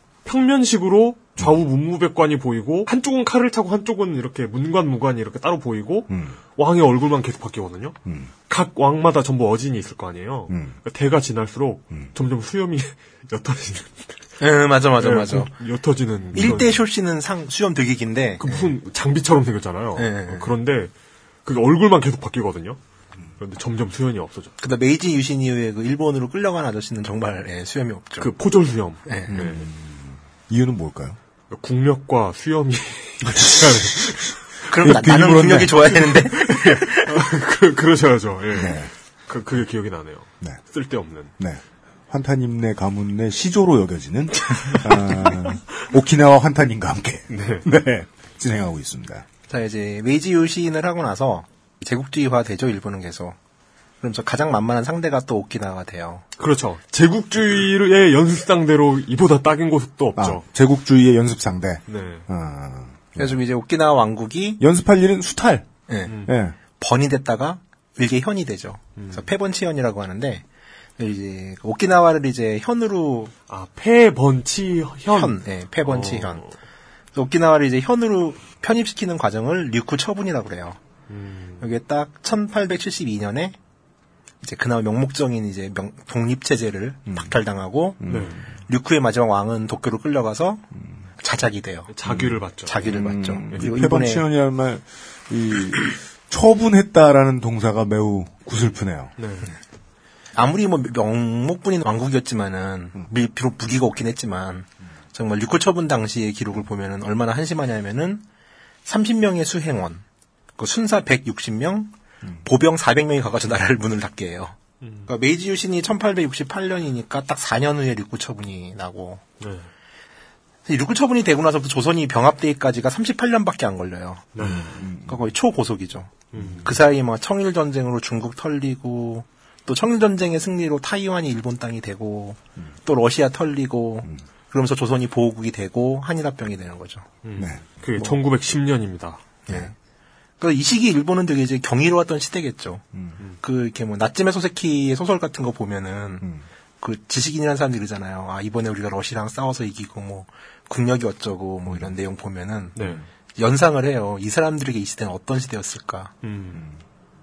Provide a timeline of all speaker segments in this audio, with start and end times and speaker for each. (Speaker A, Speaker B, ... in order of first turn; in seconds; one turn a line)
Speaker A: 0.2-8.0
Speaker B: 6.1-6.4
Speaker A: 8.5-14.3
Speaker B: 10.5-10.8
Speaker C: 14.4-15.5
Speaker A: 15.0-16.8
Speaker C: 16.3-18.7
Speaker A: 18.4-20.9
Speaker C: 20.0-20.5
Speaker A: 21.4-22.8
Speaker A: 23.4-24.6
Speaker C: 24.6-28.3
Speaker A: 28.2-29.6
Speaker C: 29.1-29.4
Speaker B: 29.3-31.2
Speaker A: 31.5-34.4
Speaker B: 33.2-36.0
Speaker C: 34.7-37.2
Speaker A: 36.0-41.3
Speaker B: 38.5-38.9
Speaker B: 41.4-49.2
Speaker A: 44.7-45.4
Speaker A: 47.3-47.7
Speaker C: 49.5-53.4
Speaker C: 54.0-56.2
Speaker A: 56.4-60.4
Speaker B: 60.2-63.4
Speaker A: 61.9-62.3
Speaker C: 63.2-64.6
Speaker B: 64.6-65.7
Speaker C: 65.9-66.2
Speaker A: 66.1-66.3
Speaker B: 66.2-66.6
Speaker C: 66.7-70.5
Speaker A: 69.0-69.3
Speaker C: 71.0-73.3
Speaker A: 73.5-76.5
Speaker C: 75.1-76.4
Speaker C: 77.1-80.8
Speaker A: 81.1-81.7
Speaker C: 81.6-83.6
Speaker C: 84.4-88.0
Speaker B: 87.1-87.3
Speaker B: 88.0-88.5
Speaker A: 88.1-88.4
Speaker C: 88.7-90.7
Speaker C: 91.2-91.9
Speaker A: 91.9-93.0
Speaker B: 92.0-99.1
Speaker C: 92.7-94.2
Speaker A: 99.2-99.5
Speaker C: 100.3-108.2
Speaker C: 108.8-110.0
Speaker C: 110.6-119.2
Speaker A: 114.8-115.1
Speaker A: 119.4-119.7
Speaker C: 120.7-137.1
Speaker A: 124.3-124.9
Speaker B: 124.4-125.2
Speaker A: 126.3-126.8
Speaker A: 137.2-139.2
Speaker B: 137.4-137.6
Speaker B: 139.5-139.7
Speaker C: 139.5-139.7
Speaker C: 140.4-142.8
Speaker B: 142.9-143.2
Speaker C: 143.4-146.2
Speaker C: 146.8-152.8
Speaker A: 152.8-153.0
Speaker C: 153.4-156.2
Speaker A: 156.2-156.6
Speaker B: 156.5-156.8